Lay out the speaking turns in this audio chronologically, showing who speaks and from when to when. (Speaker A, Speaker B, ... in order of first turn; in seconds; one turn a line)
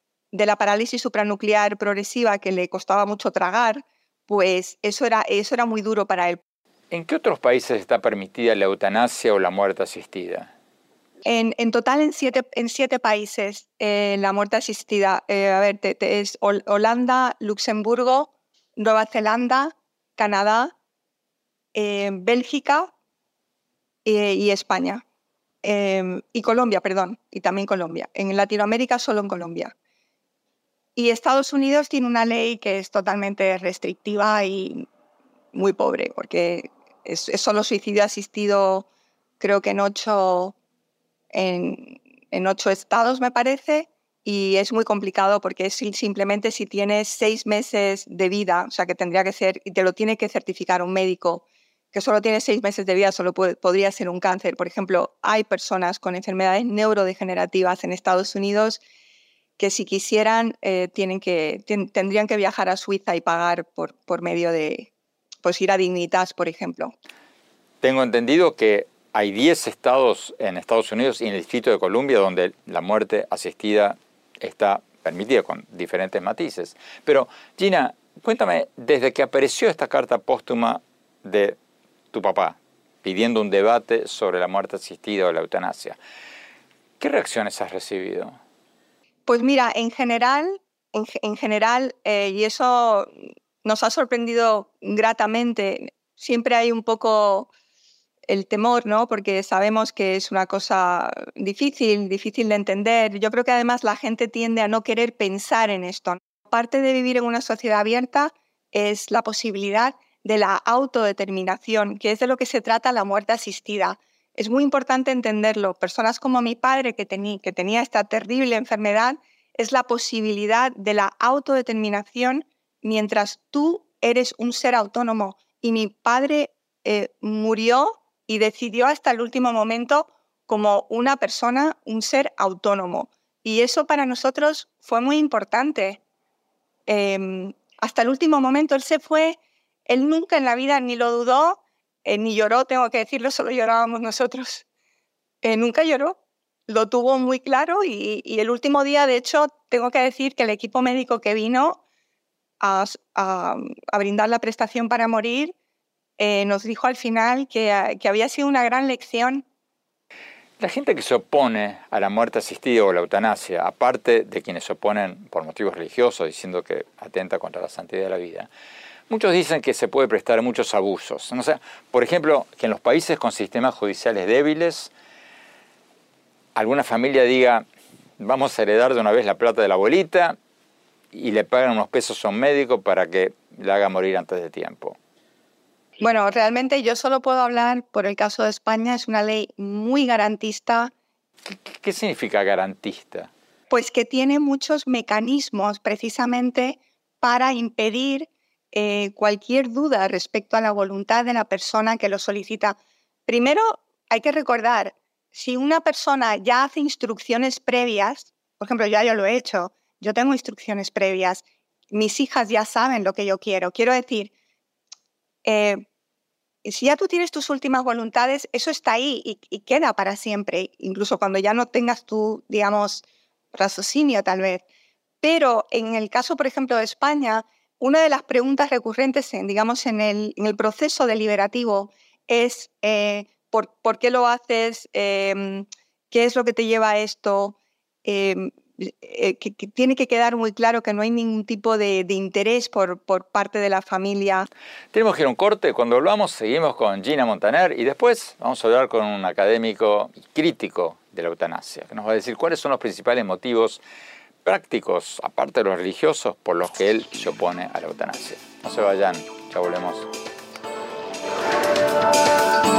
Speaker A: 0.3-6.4
Speaker B: 6.9-10.5
Speaker A: 11.2-20.7
Speaker A: 21.7-22.9
Speaker A: 24.0-25.0
Speaker A: 25.6-29.7
Speaker A: 30.9-34.9
Speaker A: 35.5-38.9
Speaker A: 39.4-40.5
Speaker A: 41.3-58.8
Speaker A: 59.6-64.9
Speaker A: 65.4-66.9
Speaker B: 67.8-81.5
Speaker B: 82.1-86.0
Speaker B: 87.0-88.4
Speaker A: 89.3-93.1
Speaker A: 93.6-97.5
Speaker A: 98.3-136.0
Speaker A: 136.9-144.6
Speaker A: 145.4-151.8
Speaker A: 152.6-155.5
Speaker A: 156.2-159.4
Speaker B: 160.6-168.5
Speaker B: 169.1-174.9
Speaker B: 176.6-177.6
Speaker B: 178.2-180.4
Speaker B: 181.1-185.0
Speaker A: 186.0-190.9
Speaker B: 191.4-193.3
Speaker A: 193.7-214.3
Speaker A: 215.4-215.8
Speaker A: 216.6-224.6
Speaker A: 225.2-244.5
Speaker B: 244.9-253.8
Speaker B: 254.4-260.1